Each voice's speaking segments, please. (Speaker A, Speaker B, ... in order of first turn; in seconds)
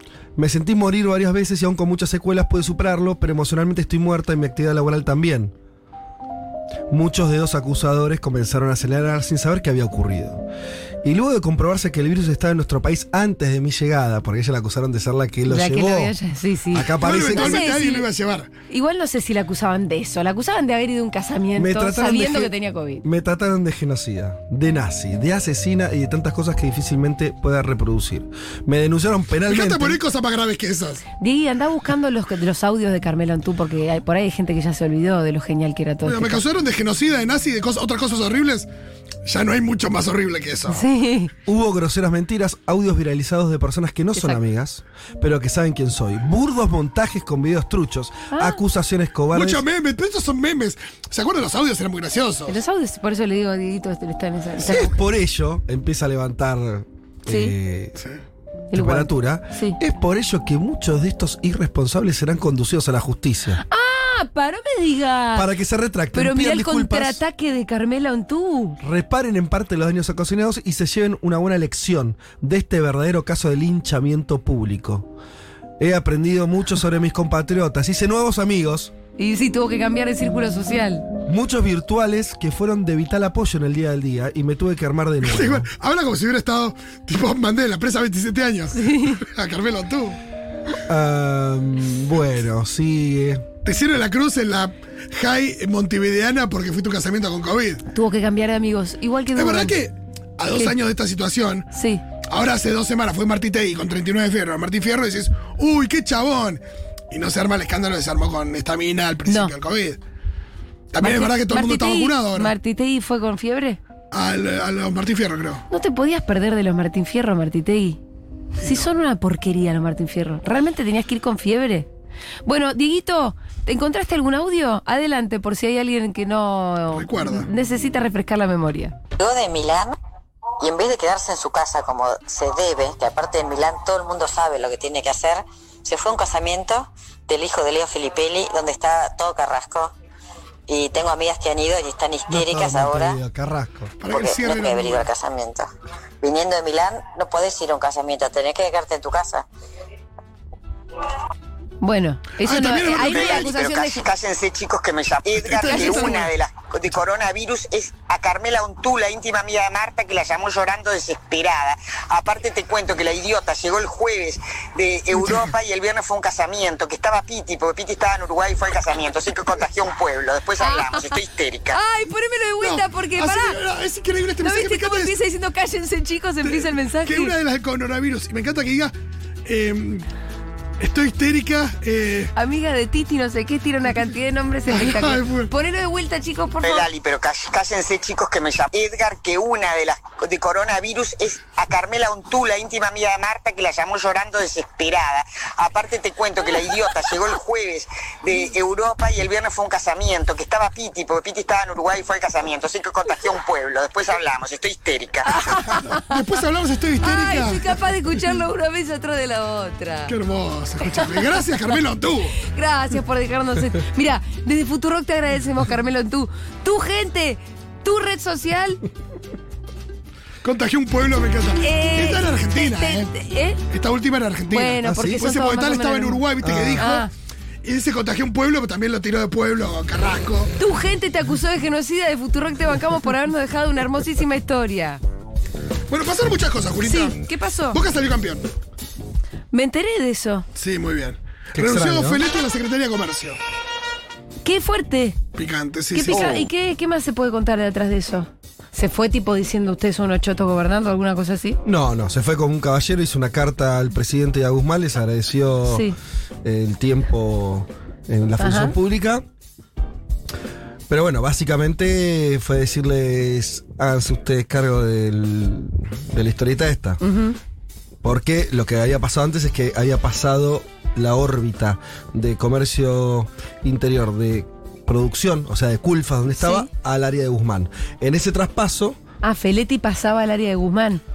Speaker A: 0.3-5.5, 6.9-10.4, 11.0-16.1, 16.7-17.6, 21.6-22.5, 23.0-30.0, 41.5-49.6, 54.6-58.0, 58.7-63.6, 65.3-67.2, 68.8-75.1, 75.8-78.9, 81.2-85.7, 90.8-93.5, 142.3-143.9, 224.8-225.2, 226.4-226.8, 241.5-242.2, 246.1-246.4, 251.6-255.9, 256.4-259.2, 260.9-267.0, 268.0-279.0
Speaker B: 15.5-18.1, 18.7-23.0, 31.2-36.4, 40.7-41.3, 44.1-44.4, 48.3-48.6, 52.5-54.9, 57.3-57.5, 58.7-59.8, 63.6-65.5, 66.1-68.8, 79.2-81.1, 88.7-89.2, 97.9-99.8, 101.7-102.0, 109.3-109.5, 111.0-113.8, 115.7-118.0, 118.6-121.9, 122.4-129.0, 151.8-154.0, 155.6-156.2, 170.6-171.2, 171.7-173.6, 174.4-177.3, 182.3-186.9, 205.3-206.2, 207.0-210.1, 210.9-211.4, 212.4-218.8, 221.6-223.6, 224.5-227.1, 230.6-235.0, 236.8-237.8, 239.5-240.5, 244.4-245.2, 245.9-251.6, 255.7-255.9, 258.4-258.7, 267.0-267.4, 276.4-276.7, 279.2-281.0
Speaker C: 16.9-18.5, 29.5-31.0, 36.0-38.7, 39.2-40.8, 49.3-52.6, 85.2-90.2, 93.6-97.8, 99.3-101.7, 102.2-110.0, 110.9-112.5, 114.1-115.6, 126.9-127.5, 144.0-145.1, 152.4-153.5, 155.5-156.3, 165.2-165.5, 172.6-175.2, 176.4-178.9, 179.4-180.1, 180.8-182.3, 184.7-185.5, 205.9-207.8, 210.1-212.4, 220.4-223.1, 223.7-227.1, 227.6-230.5, 235.9-237.2, 237.7-238.4, 240.6-243.4, 245.3-246.4
Speaker D: 129.2-129.9, 130.6-139.9, 140.7-143.2, 144.1-145.7, 146.2-149.4
Speaker E: 153.0-171.8, 186.6-205.8